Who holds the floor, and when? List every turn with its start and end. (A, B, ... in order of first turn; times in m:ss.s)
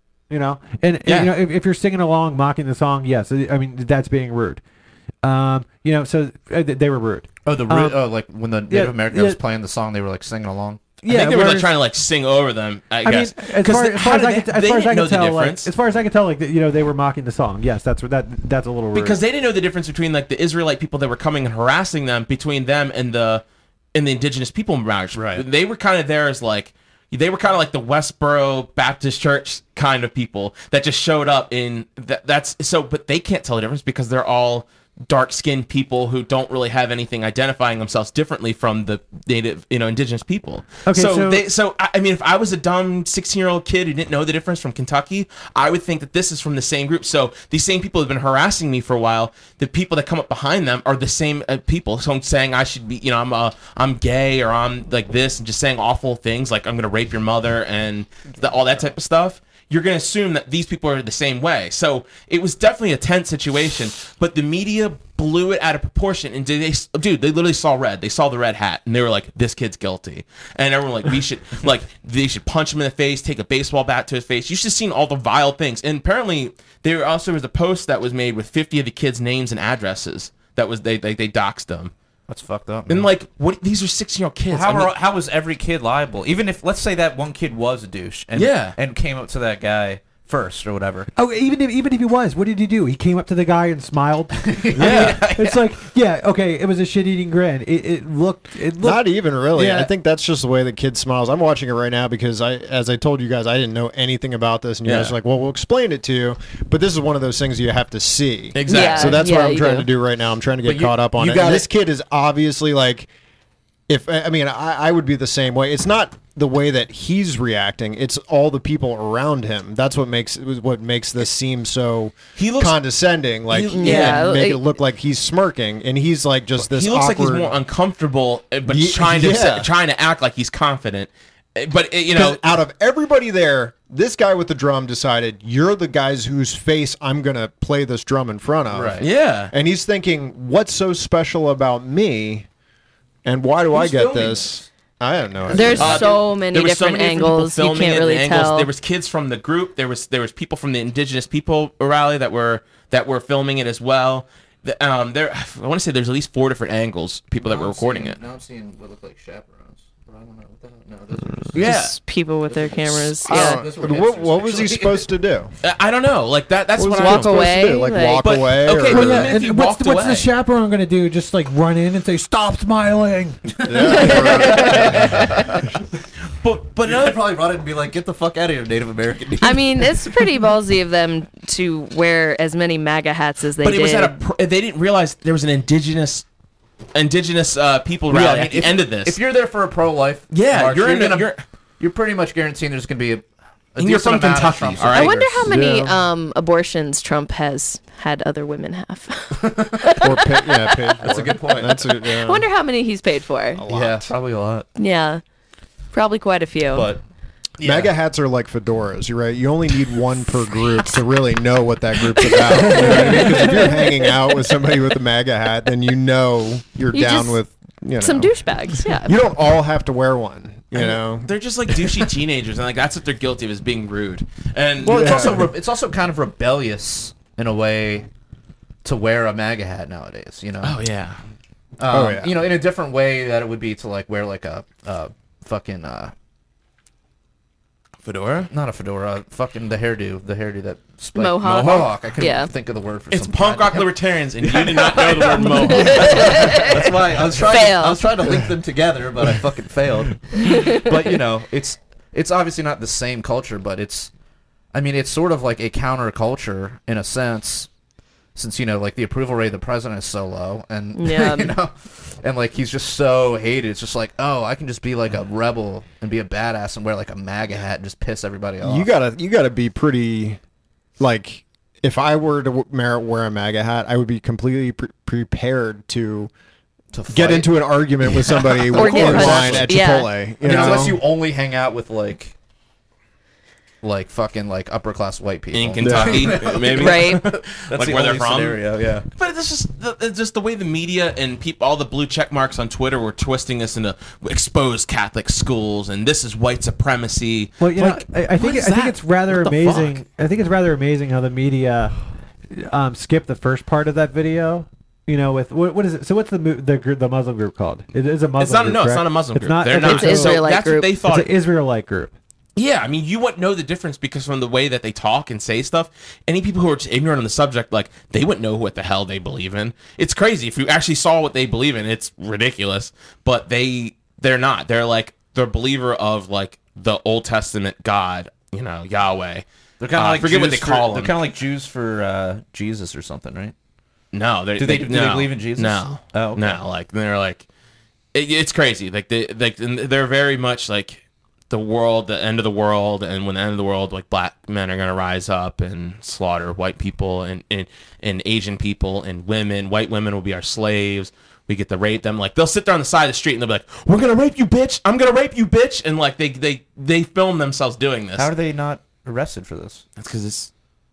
0:00.3-0:04.6 A
0:01.0-0:01.3 B
0:05.2-0:08.0 A
0:07.4-0:10.8 C
0:08.7-0:09.4 A
0:11.0-0:11.7 A
0:11.1-0:15.7 B
0:13.0-0:19.2 A
0:18.9-1:21.9 B
0:25.1-0:25.4 C
0:40.9-0:41.4 A
1:22.3-1:23.1 C
1:22.9-1:24.9 B
1:24.5-1:31.1 C
1:28.3-1:28.7 B
1:31.2-1:39.9 A
1:34.4-1:35.6 C
1:34.7-1:35.3 B
1:38.8-1:53.1 D
1:44.8-1:45.2 B
1:48.5-1:49.2 B
1:48.7-1:49.9 E
1:50.6-1:51.7 C
1:53.9-2:07.5 D
2:02.4-2:02.8 B
2:03.5-2:04.3 B
2:03.7-2:04.6 E
2:06.6-2:12.4 B
2:08.6-2:09.7 D
2:12.1-2:22.5 D
2:18.7-2:19.0 C
2:19.0-2:19.5 B
2:23.2-2:26.1 D
2:23.7-2:24.6 C
2:25.5-2:26.2 C
2:25.5-2:28.7 E
2:25.8-2:38.2 B
2:37.4-2:41.8 C
2:41.5-2:42.0 B
2:41.5-2:43.6 E
2:42.4-2:45.1 C
2:43.2-2:45.5 D
2:45.6-2:47.4 B
2:46.8-2:49.4 D
2:46.9-2:48.4 E
2:48.2-2:50.3 B
2:48.9-2:53.5 A
2:53.6-2:55.6 C
2:53.6-2:55.3 D
2:53.9-2:54.7 E
2:56.4-2:57.2 B
2:56.8-3:00.2 C
2:59.4-3:04.2 E
3:03.6-3:06.2 B
3:06.9-3:09.2 B
3:08.1-3:15.3 C
3:10.3-3:11.4 B
3:13.8-3:15.4 B
3:14.9-3:21.0 E
3:15.4-3:15.9 D
3:19.4-3:20.0 C
3:20.0-3:22.4 D
3:21.0-3:21.8 C
3:22.1-3:23.6 E
3:23.5-3:24.1 D
3:23.7-3:24.7 C
3:24.8-3:25.2 E
3:25.9-3:26.9 E
3:26.7-3:27.0 C
3:27.6-3:27.9 C
3:27.6-3:38.3 D
3:32.5-3:33.7 C
3:32.7-3:33.4 E
3:36.9-3:37.4 E
3:38.0-3:39.2 E
3:39.0-3:41.3 D
3:40.7-3:45.5 B
3:44.8-3:48.1 C
3:44.9-3:45.5 D
3:48.8-3:50.8 C
3:50.6-3:51.2 B
3:51.8-3:56.1 C
3:51.9-3:52.4 D
3:58.0-3:58.5 B
3:58.5-4:03.9 C
4:01.1-4:02.5 E
4:01.4-4:01.9 B
4:03.1-4:07.2 B
4:04.4-4:14.1 C
4:05.4-4:08.0 E
4:10.4-4:11.0 E
4:14.7-4:17.7 C
4:18.3-4:28.9 C
4:21.0-4:21.6 E
4:28.6-4:30.4 D
4:31.0-4:36.3 D
4:36.9-4:39.8 C
4:37.1-4:41.0 D
4:38.7-4:40.3 E
4:39.0-4:39.6 B
4:40.4-4:42.3 C
4:40.5-4:40.8 B
4:43.8-4:49.1 C
4:45.5-5:00.0 B
4:45.8-4:46.5 D
4:46.7-4:47.2 E
4:57.6-5:02.0 A
5:02.5-5:10.4 A
5:08.4-5:11.3 B
5:09.8-5:10.9 E
5:11.0-5:12.1 A
5:12.6-5:31.1 B
5:29.8-5:33.5 C
5:34.1-5:37.4 B
5:34.6-5:36.6 C
5:38.1-5:58.3 B
5:58.2-5:59.8 C
6:00.0-6:00.5 B